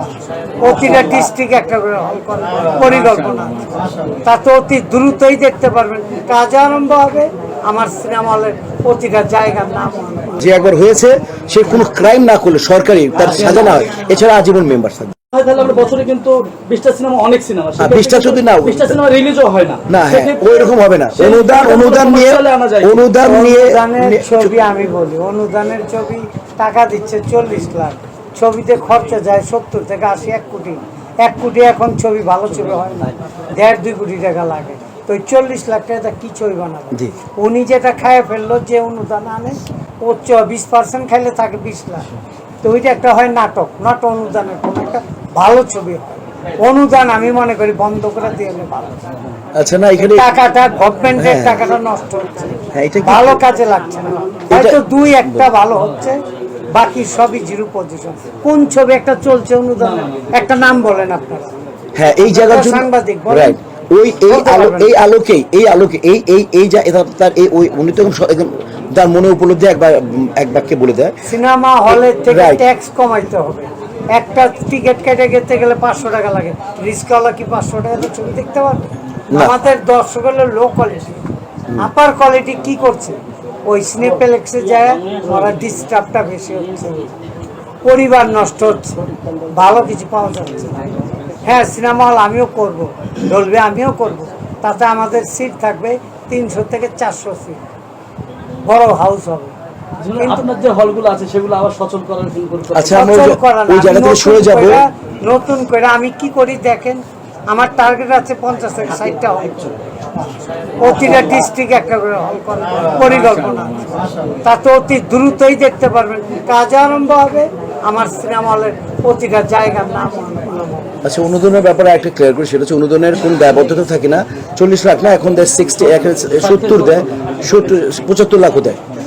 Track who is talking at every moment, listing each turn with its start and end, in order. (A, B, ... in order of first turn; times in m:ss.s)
0:00.6-0:03.7 A
0:04.2-0:10.4 A
0:10.4-0:15.1 B
0:15.3-0:23.1 C
0:17.8-0:18.9 B
0:19.9-0:24.6 B
0:23.2-0:42.1 A
0:42.6-0:49.0 A
0:49.6-0:50.3 B
0:50.0-0:56.2 A
0:51.2-0:51.6 B
0:52.7-0:53.4 B
0:54.5-0:55.4 B
0:56.7-1:01.5 A
0:59.8-1:00.2 C
1:02.0-1:11.1 B
1:02.2-1:03.6 A
1:04.3-1:04.9 A
1:11.2-1:21.2 A
1:11.9-1:12.6 B
1:21.8-1:27.1 A
1:27.8-1:29.0 A
1:29.5-1:30.9 A
1:31.4-1:37.6 A
1:38.6-1:39.5 A
1:40.0-1:43.1 C
1:40.2-1:40.4 A
1:42.7-1:44.8 B
1:42.9-1:49.7 A
1:50.8-1:53.9 A
1:54.4-2:00.9 A
2:01.0-2:08.8 B
2:06.4-2:07.0 C